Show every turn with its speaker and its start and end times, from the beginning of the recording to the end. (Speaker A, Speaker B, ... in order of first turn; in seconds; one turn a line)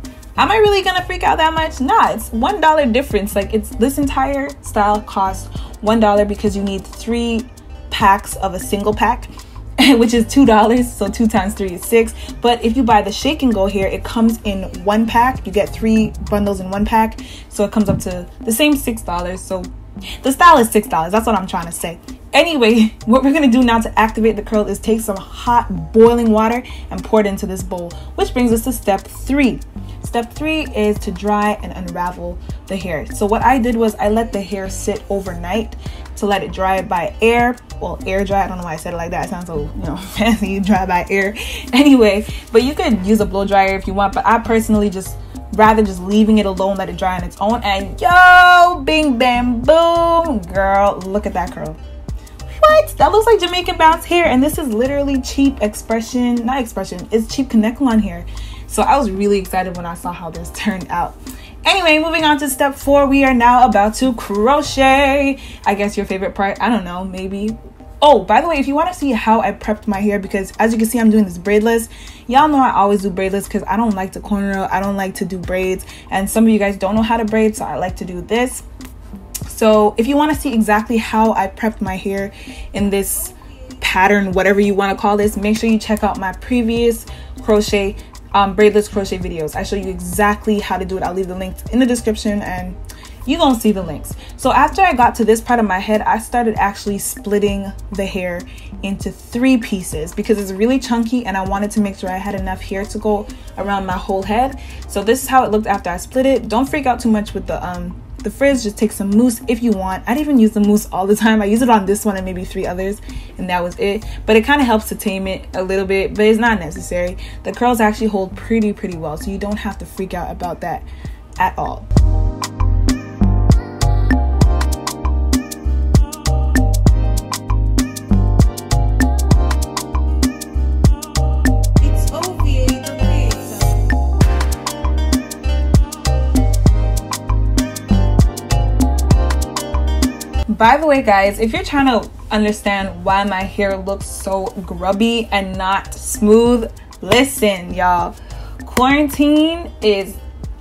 Speaker A: 0.3-19.7
Speaker A: 20.2-51.8
Speaker A: 52.5-78.7
Speaker A: 79.5-121.9
Speaker A: 131.8-133.7
Speaker A: 140.5-150.2